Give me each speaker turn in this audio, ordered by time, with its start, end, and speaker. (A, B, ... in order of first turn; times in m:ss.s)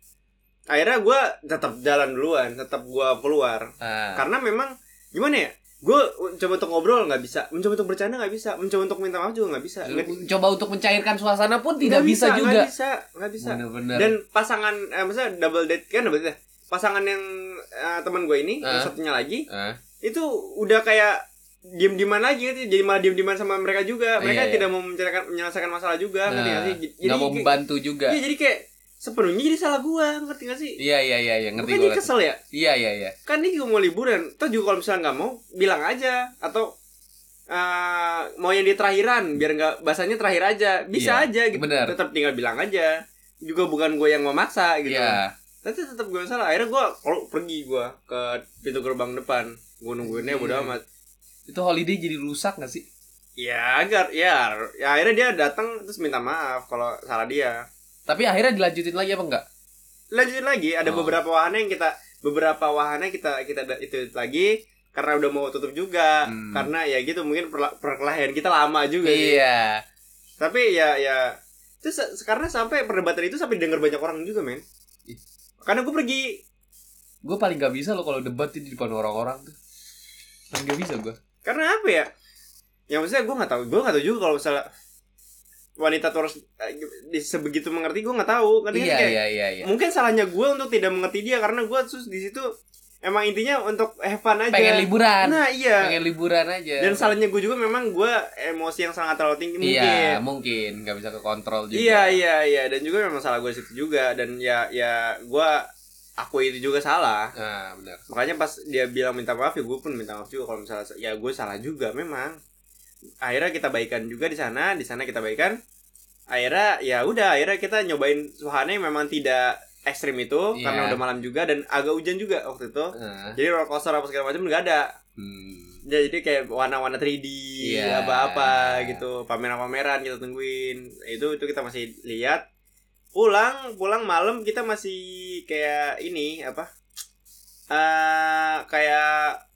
0:00.7-0:10.2 A
0:03.8-0:04.2 B
0:09.8-0:12.7 B
0:11.8-0:19.4 A
0:13.4-0:14.1 B
0:18.6-0:18.9 B
0:19.5-0:19.8 B
0:20.0-0:27.5 A
0:24.2-0:24.6 B
0:26.3-0:28.2 B
0:28.1-0:30.8 A
0:30.8-0:33.1 B
0:31.6-0:32.4 A
0:33.3-0:36.7 A
0:37.5-0:50.8 A
0:40.9-0:42.0 B
0:44.8-0:45.3 B
0:50.0-0:50.7 B
0:51.5-0:52.8 B
0:53.4-0:57.6 A
0:58.1-0:59.4 B
1:00.1-1:09.4 A
1:00.8-1:01.2 B
1:06.2-1:06.7 B
1:09.0-1:09.8 B
1:10.4-1:14.6 A
1:15.6-1:16.4 A
1:17.2-1:19.6 B
1:20.5-1:21.2 B
1:21.4-1:22.1 A
1:22.9-1:24.6 A
1:25.8-1:32.5 A
1:28.7-1:29.7 B
1:33.0-1:35.9 A
1:34.5-1:37.1 B
1:36.8-1:40.2 A
1:39.6-1:42.2 B
1:41.7-1:45.7 A
1:46.2-1:47.3 A
1:47.4-1:48.0 B
1:48.1-1:52.4 A
1:53.2-1:55.6 A
1:56.3-2:04.9 A
2:00.5-2:01.0 B
2:02.9-2:03.4 B
2:05.2-2:05.8 B
2:05.8-2:12.4 A
2:07.6-2:09.0 B
2:13.1-2:16.7 A
2:17.7-2:19.4 A